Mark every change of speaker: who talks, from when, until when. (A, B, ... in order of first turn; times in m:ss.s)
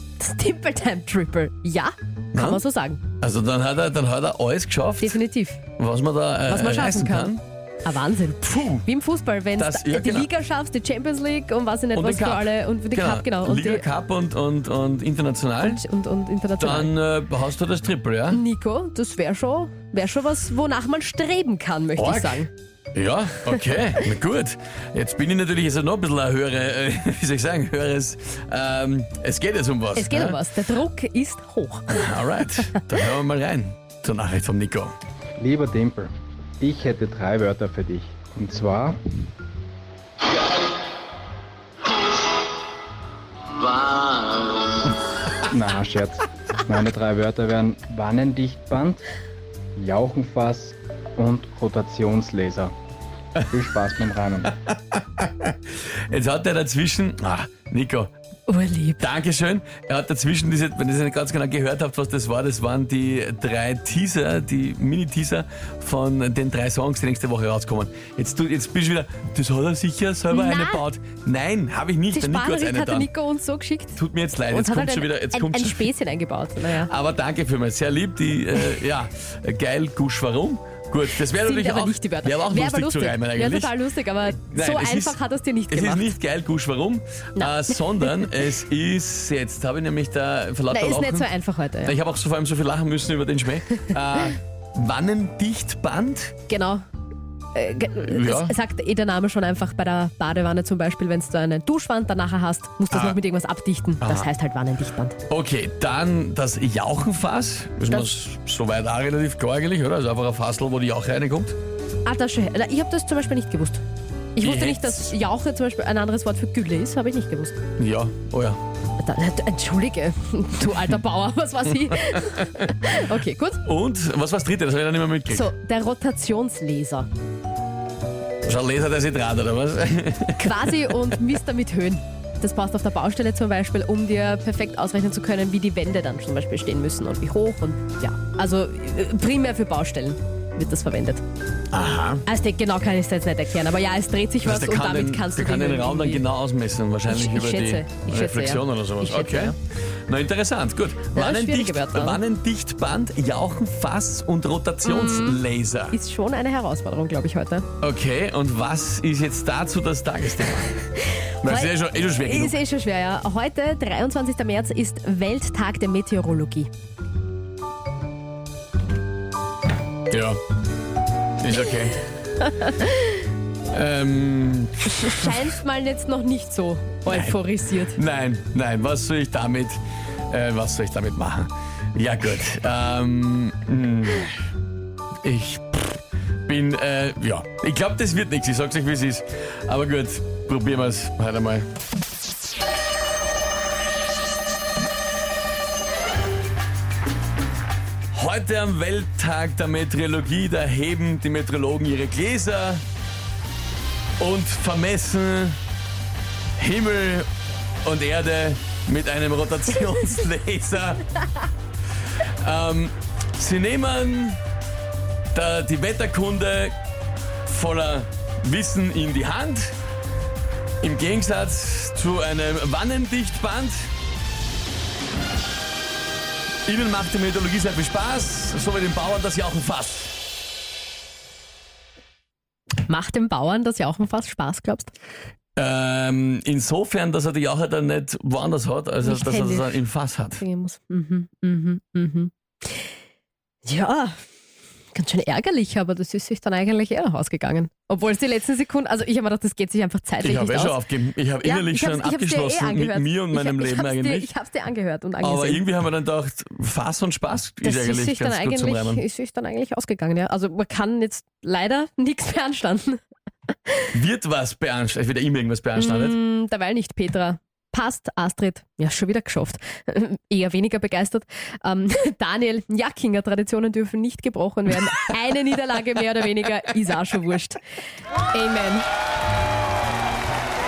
0:00.2-0:03.0 A
0:02.3-0:02.6 B
0:03.2-0:05.2 B
0:05.0-0:05.6 A
0:05.8-0:07.4 B
0:06.5-0:13.8 A
0:08.4-0:08.9 B
0:09.6-0:10.3 B
0:12.0-0:15.8 B
0:15.6-0:16.9 A
0:16.6-0:18.4 B
0:18.3-0:22.5 A
0:22.0-0:30.4 B
0:30.0-0:32.2 A
0:31.9-0:35.0 B
0:35.4-0:39.0 C
0:43.9-0:44.5 B
0:45.5-0:49.0 C
0:49.8-0:52.8 C
0:53.4-0:54.5 C
0:54.7-0:55.5 B
0:56.1-0:58.1 B
0:58.5-0:59.0 A
0:59.0-1:13.1 B
1:10.3-1:10.8 A
1:12.1-1:16.9 A
1:14.0-1:15.9 B
1:16.7-1:23.8 B
1:21.3-1:26.2 A
1:24.5-1:25.2 B
1:25.7-1:31.3 B
1:27.4-1:28.5 A
1:30.7-1:32.0 A
1:31.8-1:36.3 B
1:36.5-1:36.8 A
1:37.5-1:45.2 A
1:38.1-1:38.5 B
1:42.9-1:43.2 B
1:44.0-1:44.3 B
1:45.3-1:51.6 B
1:47.8-1:48.1 A
1:52.0-1:53.8 A
1:54.4-1:57.6 A
1:54.4-1:55.1 B
1:57.8-1:58.6 B
1:59.0-2:03.6 A
2:03.6-2:05.4 B
2:05.3-2:07.1 A
2:08.4-2:10.9 B
2:10.4-2:21.2 A
2:21.7-2:22.2 B
2:22.2-2:26.2 A
2:24.4-2:29.6 B
2:27.1-2:29.6 A
2:30.1-2:36.0 B
2:31.1-2:32.2 A
2:34.8-2:37.7 A
2:37.8-2:40.8 B
2:41.0-2:46.7 A
2:41.4-2:42.6 B
2:50.1-2:50.4 B
2:51.4-2:52.0 B
2:53.7-2:55.2 B
2:55.0-2:58.0 A
2:57.1-3:04.4 B
3:05.2-3:11.7 B
3:18.1-3:22.8 B
3:24.2-3:25.6 B
3:26.6-3:27.3 B
3:27.8-3:31.2 B
3:32.4-3:34.4 B
3:35.3-3:36.8 B
3:37.5-3:39.8 B
3:40.8-3:43.9 B
3:46.7-3:50.1 B
3:52.8-3:54.9 A
3:55.6-4:00.4 B
3:59.0-3:59.8 A
4:00.4-4:02.8 A
4:03.6-4:04.2 A
4:04.9-4:10.8 A
4:10.2-4:14.3 B
4:11.4-4:15.6 A
4:15.2-4:19.0 B
4:17.6-4:23.0 A
4:23.7-4:23.9 A
4:23.9-4:26.2 B
4:25.8-4:37.6 A
4:38.3-4:38.9 A